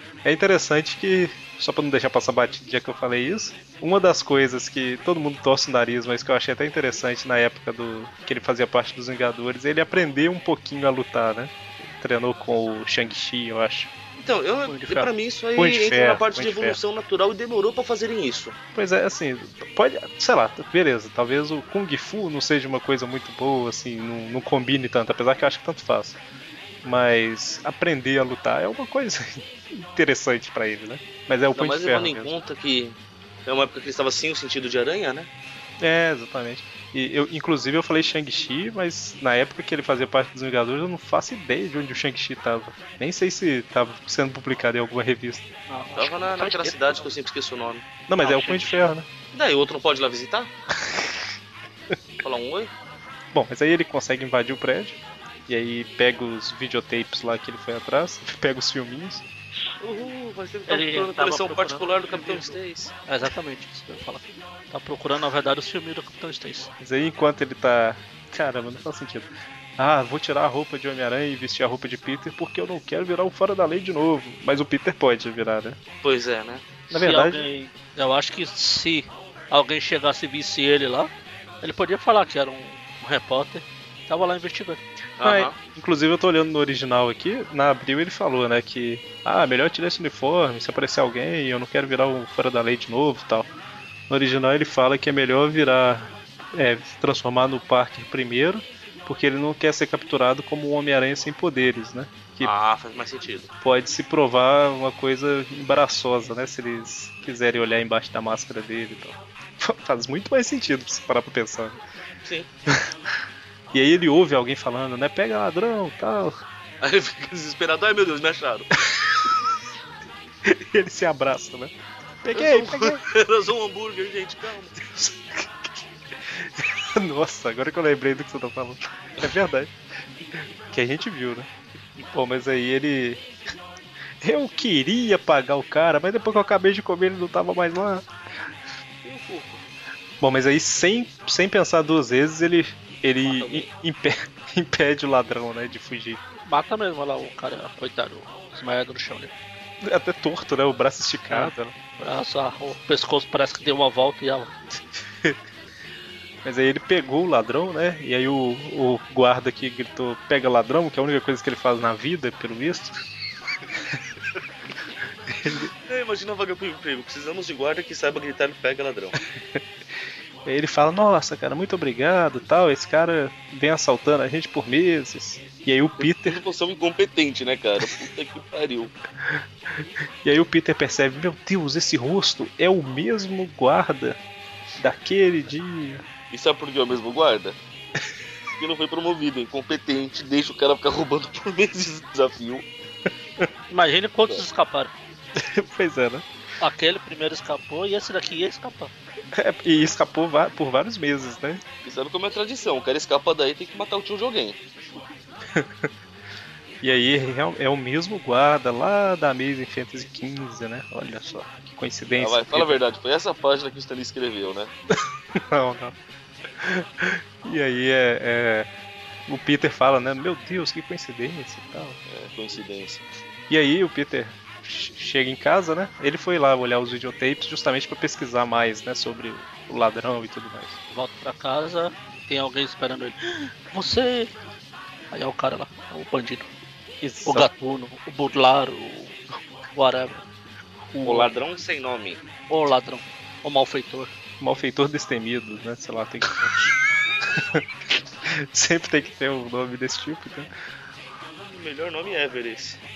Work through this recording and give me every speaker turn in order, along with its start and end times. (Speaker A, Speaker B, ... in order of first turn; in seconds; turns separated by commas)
Speaker A: 0.2-13.9, Speaker B: 14.2-18.6, Speaker C: 14.7-15.1, Speaker A: 14.9-16.8, Speaker A: 18.7-26.2, Speaker A: 26.8-32.3, Speaker B: 31.6-35.3, Speaker A: 35.8-45.5, Speaker C: 45.7-47.0, Speaker B: 46.0-47.9, Speaker A: 48.1-49.1, Speaker C: 48.2-48.9, Speaker B: 49.3-50.5, Speaker B: 52.2-52.7, Speaker A: 53.3-59.2, Speaker B: 59.8-62.9, Speaker C: 60.7-66.7, Speaker A: 66.8-75.8, Speaker B: 76.0-76.7, Speaker A: 76.9-77.5, Speaker C: 76.9-81.1, Speaker C: 81.6-84.8, Speaker B: 85.2-85.5, Speaker A: 85.2-93.5, Speaker A: 94.1-102.5, Speaker B: 102.4-103.5, Speaker A: 103.6-111.8, Speaker A: 113.7-116.4, Speaker B: 116.8-118.7, Speaker A: 120.5-121.7, Speaker A: 122.2-123.0, Speaker B: 122.3-124.8, Speaker A: 124.9-129.7, Speaker A: 130.4-131.5, Speaker A: 132.1-133.2, Speaker A: 134.2-138.1, Speaker B: 139.0-139.6, Speaker A: 140.2-146.2, Speaker B: 143.2-143.7, Speaker C: 146.5-149.3, Speaker A: 149.8-151.8, Speaker C: 151.3-154.5, Speaker A: 156.4-162.9, Speaker A: 165.3-165.7, Speaker B: 165.9-169.2, Speaker A: 170.4-176.4, Speaker B: 176.0-178.9, Speaker A: 179.2-184.2, Speaker A: 184.8-186.0, Speaker B: 186.3-187.6, Speaker B: 188.6-192.6, Speaker C: 193.7-194.9, Speaker A: 195.4-196.3, Speaker C: 196.6-198.9, Speaker A: 199.4-201.6, Speaker B: 201.8-204.6, Speaker A: 205.5-205.9, Speaker A: 206.8-212.8, Speaker B: 212.2-214.7, Speaker A: 215.3-216.0, Speaker A: 216.6-218.7, Speaker A: 219.3-222.0, Speaker B: 222.1-223.0, Speaker A: 223.5-230.8, Speaker C: 230.9-234.3, Speaker C: 235.1-236.5, Speaker A: 237.0-237.5, Speaker C: 237.3-239.2, Speaker C: 239.7-240.3, Speaker A: 240.9-241.3, Speaker B: 241.0-242.2, Speaker C: 242.5-244.1, Speaker A: 244.4-246.4, Speaker A: 248.4-250.5, Speaker B: 251.4-252.8